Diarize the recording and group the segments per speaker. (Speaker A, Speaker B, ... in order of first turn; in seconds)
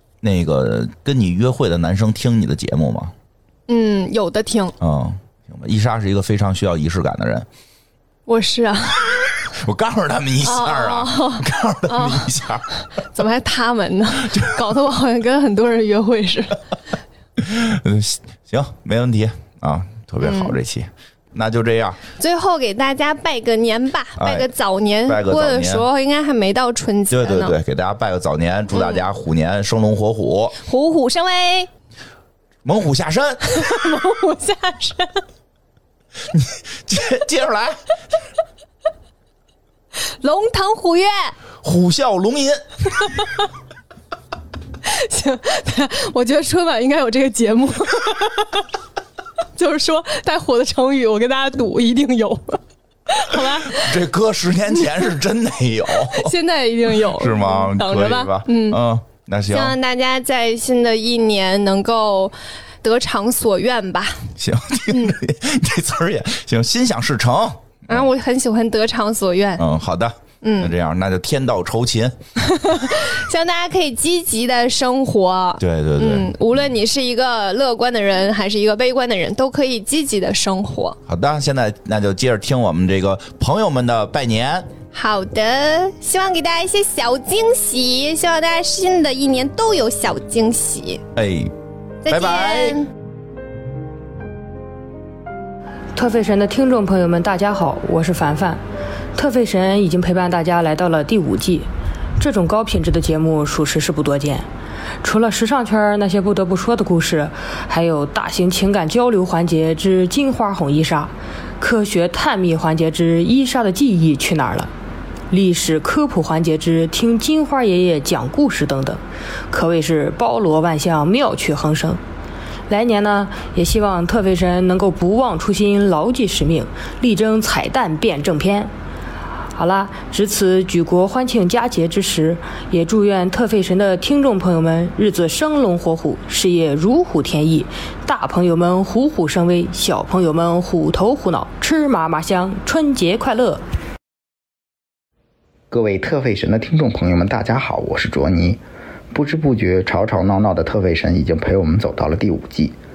Speaker A: 0.2-3.1, 4.8-7.5, 9.6-12.7, 17.4-22.0, 24.2-24.5, 25.1-25.9, 27.1-30.6, 32.6-33.6, 36.3-37.8, 41.6-42.6, 53.6-56.3, 57.0-59.8, 64.4-68.0, 69.6-72.2, 75.6-76.3, 81.1-84.7, 91.1-91.5, 92.1-92.8
Speaker B: 3.7-4.7, 8.3-9.3, 10.4-12.2, 13.0-16.6, 20.2-20.5, 22.2-27.6, 28.7-29.1, 30.6-31.7, 33.5-35.2, 40.2-41.3, 44.8-48.6, 49.6-53.9, 56.0-58.8, 59.5-64.3, 64.9-65.2, 67.9-69.6, 70.4-70.7, 72.5-81.0, 84.9-91.0, 92.0-92.9
Speaker C: 95.9-98.6, 99.1-104.5, 105.0-114.7, 115.3-122.0, 122.7-128.7, 129.5-143.6
Speaker D: 145.7-152.8